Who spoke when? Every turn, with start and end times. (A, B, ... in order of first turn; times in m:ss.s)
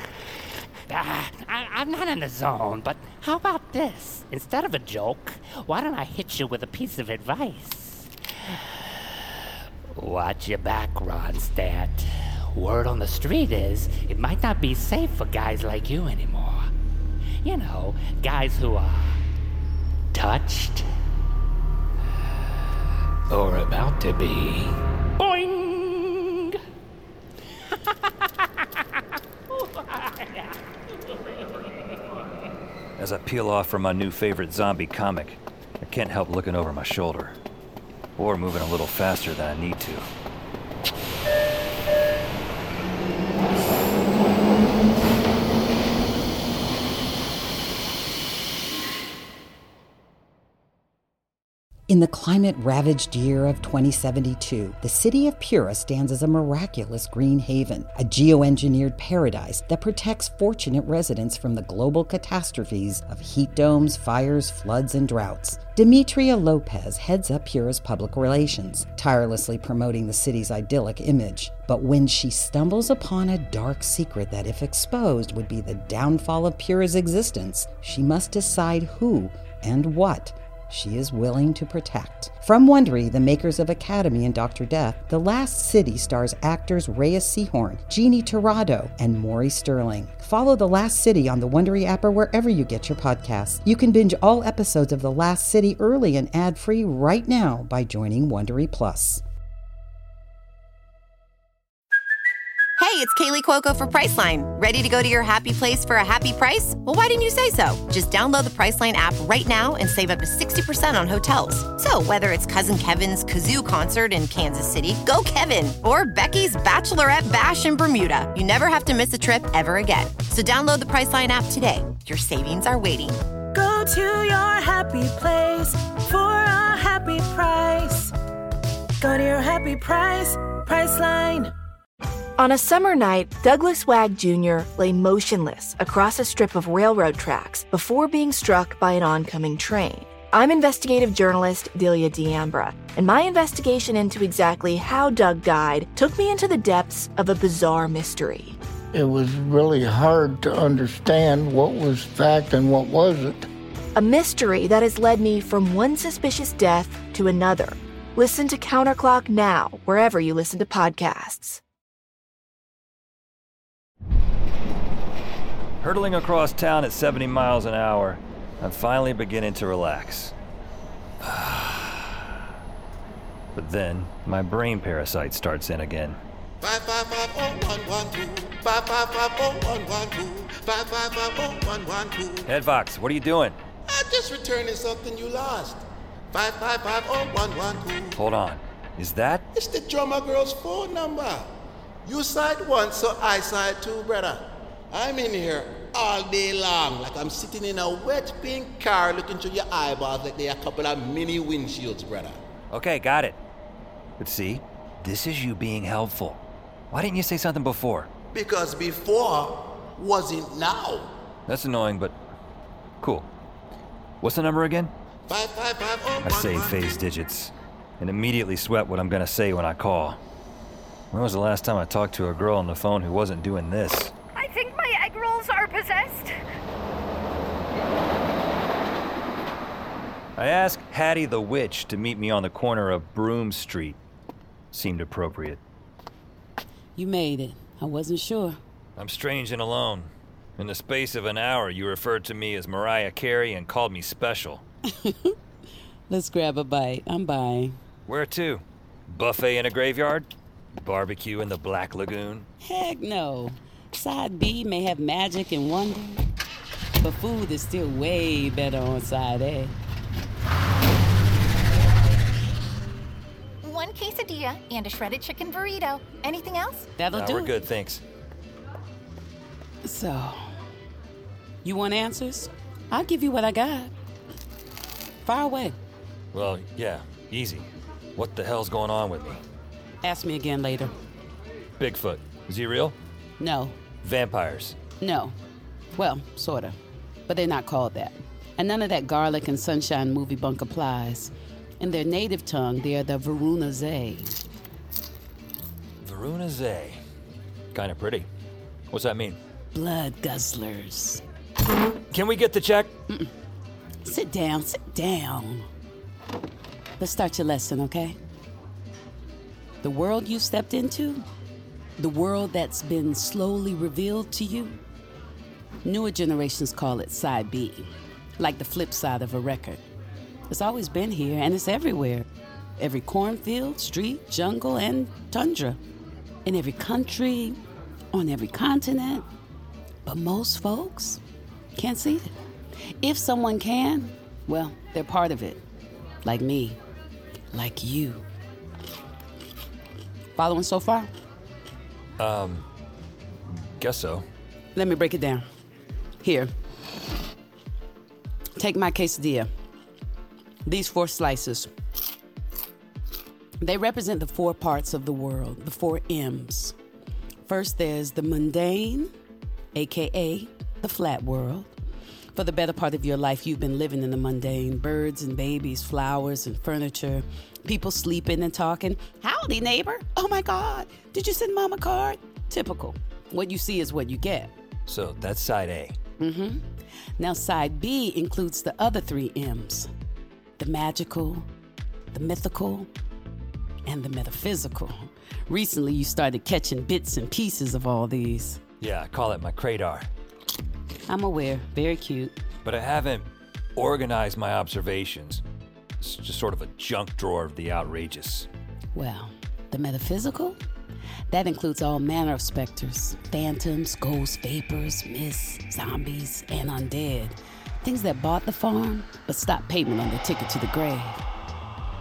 0:00.9-0:09.3 A
0:09.9-0:16.7 A
0:17.4-0:19.2 A
0:20.1-0:20.9 A
0:23.3-0:26.6 A
0:27.7-0:28.8 A
0:29.5-0:31.1 A
0:33.0-0:37.4 B
0:38.2-0:40.1 B
0:51.9-1:39.2 C
1:42.8-2:03.2 D
2:06.8-2:07.6 E
2:09.1-2:10.2 E
2:10.8-2:11.3 E
2:12.4-2:28.6 F
2:28.9-2:33.4 G
2:33.9-2:41.6 F
2:45.8-2:50.3 B
2:51.2-2:52.2 B
2:53.5-2:56.2 B
2:56.6-3:02.5 H
3:02.5-3:03.6 B
3:03.9-3:08.2 H
3:08.2-3:09.4 B
3:09.5-3:11.5 H
3:12.0-3:22.4 H
3:22.7-3:23.4 B
3:24.2-3:26.4 B
3:26.9-3:28.1 B
3:28.3-3:31.2 H
3:31.5-3:32.1 B
3:33.0-3:33.3 B
3:34.2-3:34.9 B
3:35.3-3:36.8 H
3:36.2-3:40.2 B
3:41.1-3:44.1 B
3:44.4-3:46.3 I
3:50.4-3:54.0 B
3:54.7-3:55.6 B
3:57.0-3:58.6 J
3:59.0-4:04.6 B
4:04.9-4:05.3 J
4:06.1-4:07.8 J
4:08.1-4:12.5 B
4:12.6-4:16.2 J
4:17.0-4:19.8 J
4:23.6-4:26.9 K
4:27.0-4:27.5 J
4:27.1-4:28.0 B
4:29.8-4:30.5 J
4:31.6-4:33.9 J
4:35.2-4:35.8 J
4:36.3-4:39.4 B
4:40.0-4:40.9 J
4:41.8-4:43.0 B
4:43.4-4:43.8 J
4:44.0-4:44.8 B
4:45.0-4:45.3 J
4:46.0-4:46.8 J
4:47.3-4:54.4 J
4:56.0-4:57.0 B
4:57.7-4:58.3 B
4:58.9-4:59.4 B
4:59.7-5:01.2 J
5:02.1-5:02.9 B
5:04.0-5:05.7 J
5:07.0-5:08.2 J
5:09.8-5:11.2 J
5:12.0-5:14.8 J
5:15.8-5:19.8 J
5:20.5-5:25.8 J
5:26.4-5:27.6 J
5:28.1-5:29.3 J
5:30.0-5:31.2 J
5:31.8-5:32.4 J
5:33.0-5:35.6 J
5:36.2-5:36.8 J
5:37.5-5:38.2 J
5:40.4-5:41.1 J
5:42.2-5:42.6 B
5:43.5-5:44.2 B
5:44.8-5:45.5 J
5:46.2-5:46.5 J
5:48.6-5:49.5 J
5:50.6-5:51.7 J
5:53.6-5:56.7 J
5:57.5-5:59.1 J
5:59.7-6:01.7 J
6:02.3-6:14.5 J
6:14.9-6:16.0 B
6:16.2-6:16.6 J
6:17.2-6:19.9 J
6:20.6-6:21.5 J
6:22.1-6:22.9 J
6:23.8-6:28.6 J
6:28.8-6:30.1 B
6:31.1-6:32.4 J
6:32.6-6:33.2 B
6:33.8-6:35.4 B
6:36.0-6:38.5 B
6:38.9-6:40.6 J
6:41.3-6:51.2 J